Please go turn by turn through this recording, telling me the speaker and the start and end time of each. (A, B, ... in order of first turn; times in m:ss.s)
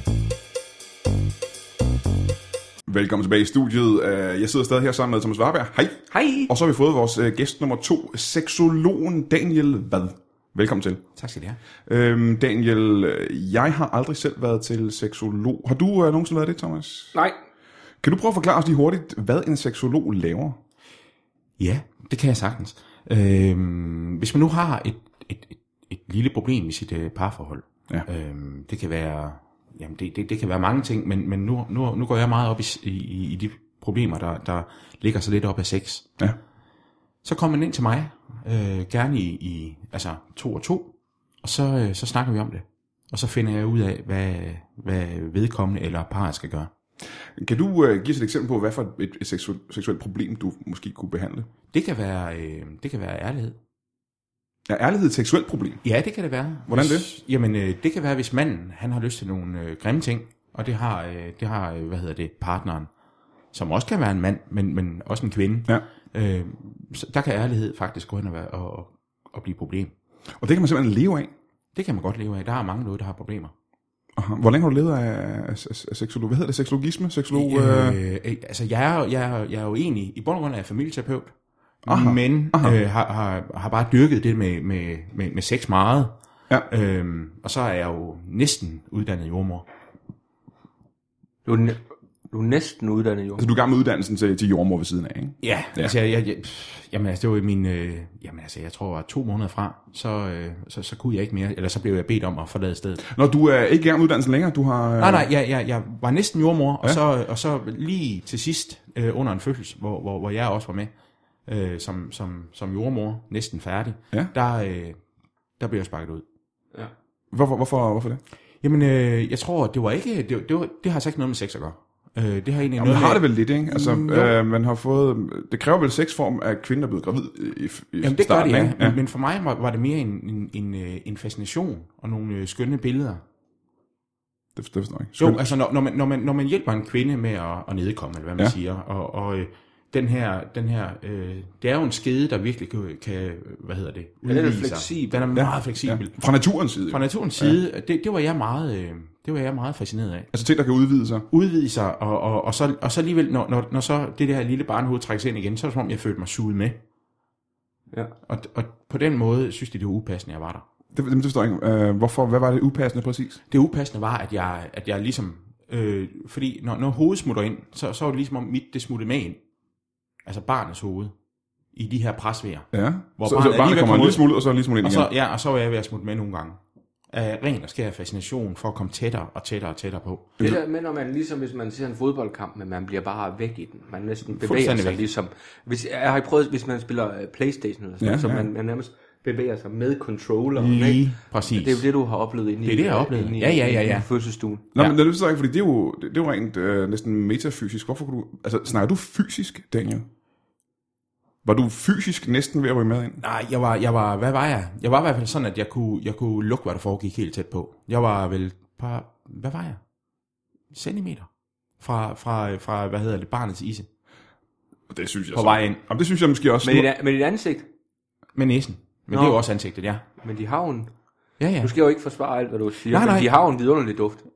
0:02.9-0:11.0 A
0:06.1-0:06.5 B
0:11.2-0:11.6 C
0:11.9-0:17.2 A
0:18.0-0:20.6 A
0:21.6-0:36.1 C
0:37.2-0:40.9 C
0:41.4-0:46.7 C
0:47.4-0:51.5 A
0:51.7-0:53.6 C
0:54.7-0:55.8 A
0:55.8-1:02.9 C
0:56.7-0:57.1 A
1:03.5-1:09.9 C
1:10.4-1:11.3 A
1:11.7-1:13.5 C
1:14.2-1:18.0 A
1:17.3-1:21.3 C
1:21.8-1:26.1 C
1:21.8-1:22.8 A
1:26.7-1:29.6 C
1:31.4-1:33.5 B
1:33.4-1:35.9 A
1:35.4-1:43.0 C
1:43.0-1:45.3 A
1:45.0-1:50.9 C
1:51.5-1:55.0 C
1:55.6-1:56.2 C
1:57.3-1:58.2 A
1:58.6-2:04.4 C
2:02.8-2:09.0 A
2:08.0-2:13.2 C
2:14.6-2:15.5 A
2:15.2-2:26.2 C
2:24.2-2:25.3 B
2:25.3-2:27.6 A
2:26.9-2:30.3 C
2:30.3-2:31.2 A
2:31.3-2:36.8 C
2:38.2-2:40.6 C
2:40.9-2:43.4 A
2:43.5-2:49.4 C
2:50.2-2:51.1 C
2:51.7-2:54.2 C
2:52.7-2:55.1 A
2:54.8-2:56.6 C
2:57.1-3:00.4 C
3:00.4-3:14.6 B
3:04.3-3:05.0 C
3:08.0-3:08.5 A
3:10.6-3:11.9 C
3:12.6-3:14.1 C
3:14.7-3:20.0 A
3:21.4-3:23.2 A
3:23.2-3:29.8 C
3:30.7-3:31.3 C
3:31.8-3:33.9 C
3:34.9-3:36.9 A
3:35.3-3:35.8 C
3:36.6-3:37.7 B
3:38.3-3:40.0 C
3:39.1-3:39.4 B
3:40.2-3:40.9 B
3:41.4-3:41.7 C
3:41.6-3:44.2 B
3:42.9-3:43.3 C